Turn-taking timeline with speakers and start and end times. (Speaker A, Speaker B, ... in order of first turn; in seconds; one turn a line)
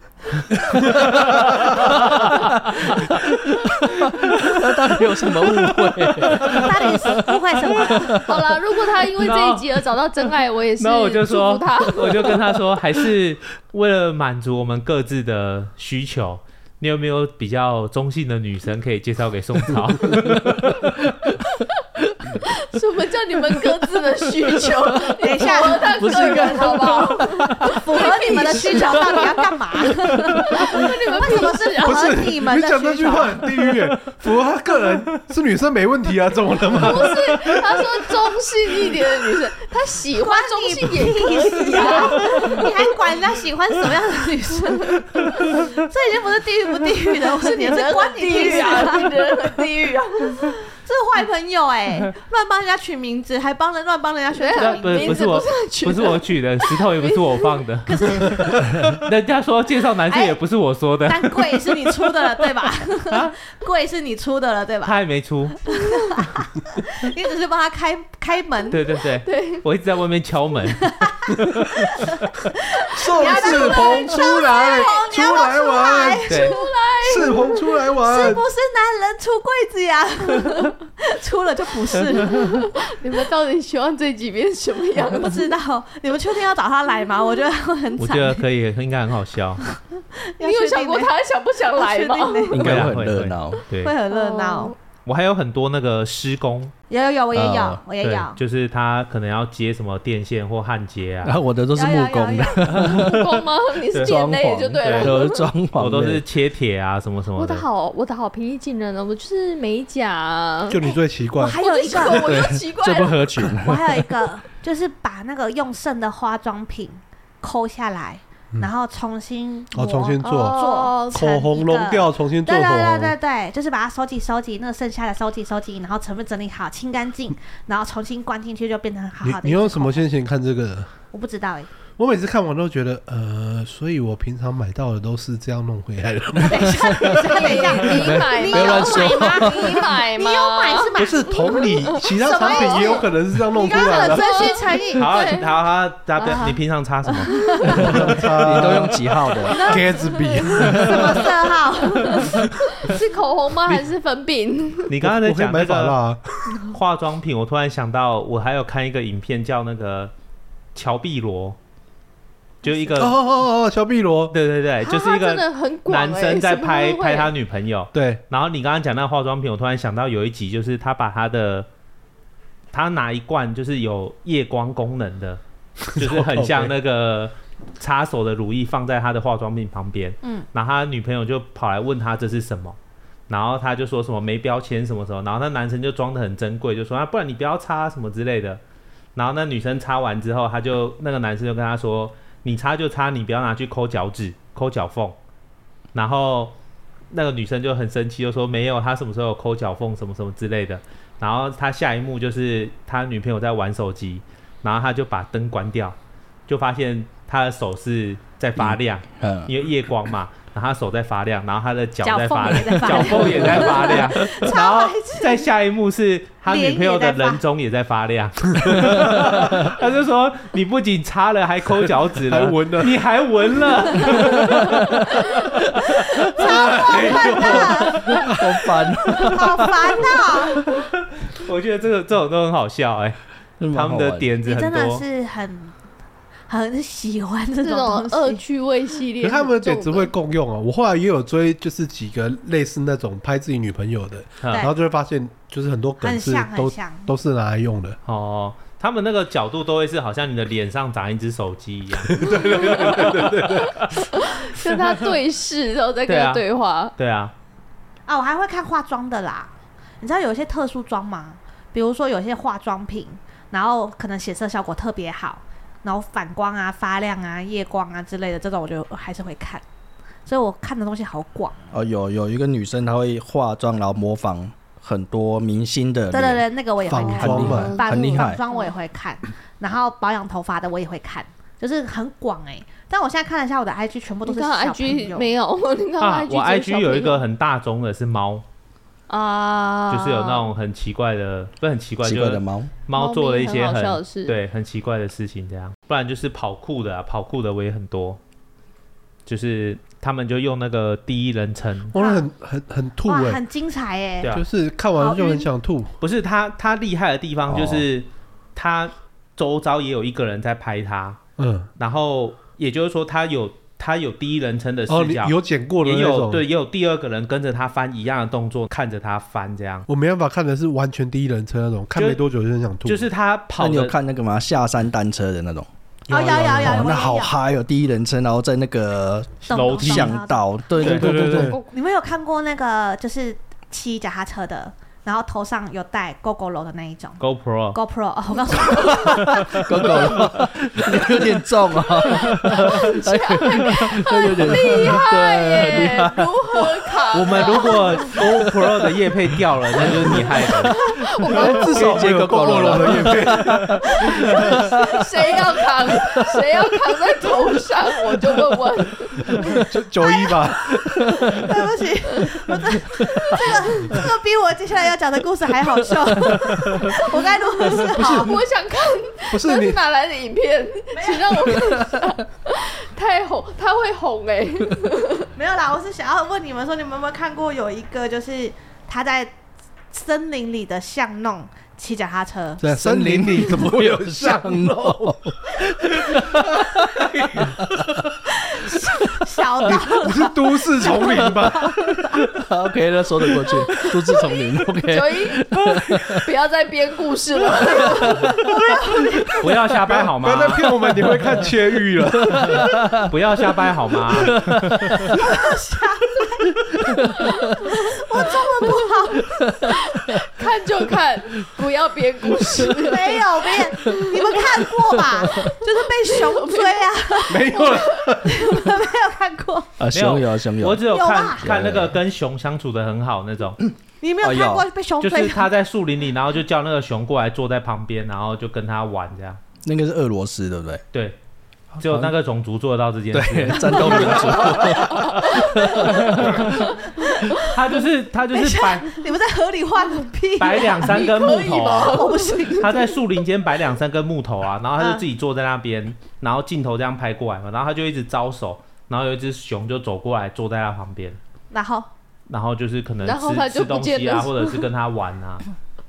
Speaker A: 0.4-3.2
Speaker B: 0.7-8.6
Speaker A: 4.1-4.6
Speaker C: 6.5-8.2
Speaker D: 8.2-12.4
Speaker A: 9.2-9.8
Speaker A: 10.8-20.9
Speaker B: 20.1-21.3
Speaker D: 22.4-29.5
Speaker C: 25.2-33.7
Speaker B: 25.8-27.7
Speaker D: 30.1-32.3
Speaker E: 31.8-38.3
Speaker D: 36.7-42.9
Speaker C: 40.1-49.3
Speaker D: 47.2-50.6
Speaker C: 50.4-55.3
Speaker D: 54.3-57.5
Speaker A: 54.6-61.9
Speaker C: 57.9-58.7
Speaker C: 60.1-60.4
Speaker C: 61.0-65.0
Speaker A: 64.8-65.6
Speaker C: 65.7-68.8
Speaker D: 65.9-66.2
Speaker A: 68.7-71.9
Speaker D: 69.2-69.6
Speaker C: 70.8-76.7
Speaker E: 72.9-76.4
Speaker D: 73.1-75.1
Speaker A: 76.3-76.5
Speaker D: 76.3-77.8
Speaker E: 77.0-78.4
Speaker C: 78.0-82.7
Speaker D: 82.3-85.5
Speaker C: 85.1-88.4
Speaker A: 88.0-89.6
Speaker C: 89.7-91.1
Speaker D: 90.4-92.7
Speaker C: 91.7-92.6
Speaker B: 92.5-93.6
Speaker A: 92.6-93.9
Speaker C: 93.8-94.7
Speaker D: 94.1-94.7
Speaker A: 95.0-96.7
Speaker C: 96.9-98.4
Speaker B: 97.3-97.8
Speaker A: 98.0-101.4
Speaker B: 101.2-103.4
Speaker C: 101.7-102.8
Speaker A: 102.7-103.2
Speaker D: 102.8-105.5
Speaker B: 104.0-106.2
Speaker A: 104.8-107.6
Speaker D: 107.3-110.9
Speaker E: 110.7-112.1
Speaker C: 111.4-112.3
Speaker D: 111.6-113.4
Speaker B: 112.2-114.2
Speaker C: 113.6-130.1
Speaker E: 119.7-120.6
Speaker D: 120.2-121.2
Speaker E: 121.1-123.1
Speaker E: 129.2-130.9
Speaker C: 131.1-131.7
Speaker E: 132.0-137.6
Speaker C: 136.4-145.4
Speaker D: 137.2-143.1
Speaker B: 137.9-139.9
Speaker E: 141.0-144.4
Speaker D: 143.7-145.5
Speaker A: 144.9-147.8
Speaker D: 146.2-146.6
Speaker C: 147.3-147.9
Speaker D: 147.3-147.8
Speaker E: 147.7-151.5
Speaker B: 147.9-149.8
Speaker C: 149.4-152.4
Speaker D: 150.4-150.7
Speaker B: 150.5-151.2
Speaker D: 152.0-154.9
Speaker E: 152.2-152.9
Speaker A: 154.9-156.0
Speaker E: 155.0-156.6
Speaker A: 156.6-160.1
Speaker A: 160.7-161.6
Speaker A: 162.6-163.2
Speaker E: 163.0-164.3
Speaker A: 164.3-171.7
Speaker D: 164.8-167.3
Speaker E: 167.9-168.2
Speaker A: 172.7-175.4
Speaker A: 175.9-182.8
Speaker E: 175.9-176.7
Speaker A: 183.3-188.6
Speaker A: 189.1-195.2
Speaker A: 195.9-196.5
Speaker A: 197.1-205.9
Speaker A: 206.5-226.2
Speaker B: 208.6-209.5
Speaker C: 212.0-215.5
Speaker B: 212.9-213.5
Speaker C: 216.4-217.4
Speaker B: 218.8-219.6
Speaker E: 222.3-223.0
Speaker B: 224.1-224.9
Speaker E: 226.2-228.7
Speaker C: 226.3-228.0
Speaker A: 226.8-228.2
Speaker B: 228.1-230.2
Speaker C: 229.1-230.6
Speaker A: 230.6-233.2
Speaker B: 233.6-234.3
Speaker A: 233.7-235.0
Speaker C: 234.4-235.7
Speaker C: 236.5-238.4
Speaker D: 237.6-240.1
Speaker E: 239.2-248.0
Speaker A: 244.4-244.7
Speaker C: 246.0-247.1
Speaker A: 248.1-254.0
Speaker E: 252.0-253.9
Speaker D: 252.2-253.1
Speaker D: 253.7-256.9
Speaker A: 256.1-256.4
Speaker A: 257.0-257.3
Speaker C: 258.1-269.6
Speaker C: 270.2-271.7
Speaker B: 271.7-278.4
Speaker C: 276.1-285.3
Speaker E: 276.9-277.8
Speaker D: 277.4-278.7
Speaker D: 284.2-287.2
Speaker A: 286.0-288.4
Speaker D: 289.1-290.5
Speaker A: 289.9-298.2
Speaker B: 292.0-292.7
Speaker D: 292.9-294.4
Speaker A: 299.2-301.9
Speaker E: 301.9-303.4
Speaker C: 301.9-302.3
Speaker C: 303.0-304.4
Speaker E: 304.3-305.9
Speaker C: 304.9-305.5
Speaker A: 306.0-311.2
Speaker B: 307.5-307.8
Speaker E: 311.4-311.7
Speaker A: 311.8-319.9
Speaker E: 314.9-316.4
Speaker E: 319.9-323.1
Speaker A: 321.9-322.2
Speaker A: 322.8-323.9
Speaker B: 323.6-331.6
Speaker E: 326.1-326.9
Speaker C: 326.1-327.3
Speaker C: 329.5-330.4
Speaker A: 329.5-330.2
Speaker A: 330.8-331.4
Speaker E: 330.8-331.6
Speaker C: 331.6-337.2
Speaker A: 337.2-337.8
Speaker C: 337.7-339.6
Speaker B: 338.7-346.8
Speaker A: 339.3-340.3
Speaker D: 341.9-348.5
Speaker A: 347.1-350.8
Speaker B: 348.2-348.6
Speaker B: 349.8-350.3
Speaker D: 350.5-351.9
Speaker E: 351.3-354.6
Speaker B: 351.3-355.3
Speaker D: 353.8-359.6
Speaker B: 355.9-356.9
Speaker E: 359.4-360.9
Speaker C: 360.0-360.3
Speaker B: 360.9-361.3
Speaker C: 361.3-368.4
Speaker D: 363.3-364.0
Speaker D: 367.6-375.3
Speaker E: 368.0-368.3
Speaker E: 369.3-369.8
Speaker C: 371.0-371.3
Speaker C: 375.4-379.3
Speaker C: 379.9-382.6
Speaker E: 382.6-385.2
Speaker B: 382.6-387.9
Speaker E: 386.1-386.4
Speaker E: 387.0-387.5
Speaker C: 388.4-392.1
Speaker E: 389.6-392.4
Speaker B: 392.4-396.2
Speaker D: 393.7-395.5
Speaker D: 396.1-398.4
Speaker B: 397.7-398.4
Speaker C: 398.4-399.5
Speaker A: 399.4-400.7
Speaker E: 399.8-403.0
Speaker B: 402.3-403.1
Speaker A: 403.0-405.1
Speaker B: 404.1-405.2
Speaker C: 405.1-406.6
Speaker B: 406.8-407.7
Speaker C: 407.6-409.5
Speaker B: 409.4-410.2
Speaker D: 409.7-414.4
Speaker B: 412.3-412.9
Speaker C: 412.6-419.7
Speaker B: 413.7-415.5
Speaker D: 416.0-418.2
Speaker E: 417.3-418.4
Speaker B: 419.8-420.9
Speaker A: 419.9-423.6
Speaker C: 420.9-421.5
Speaker B: 421.4-422.0
Speaker B: 423.6-424.7
Speaker C: 424.0-425.5
Speaker A: 425.0-429.4
Speaker B: 429.6-430.8
Speaker B: 431.7-432.1
Speaker A: 431.8-436.6
Speaker B: 433.1-436.6
Speaker D: 435.2-435.6
Speaker C: 437.0-437.5
Speaker A: 437.4-439.0
Speaker C: 438.3-441.1
Speaker A: 440.4-451.2
Speaker D: 440.8-442.7
Speaker C: 441.6-442.9
Speaker C: 444.8-445.0
Speaker C: 451.5-451.9
Speaker A: 452.3-455.4
Speaker D: 453.0-454.6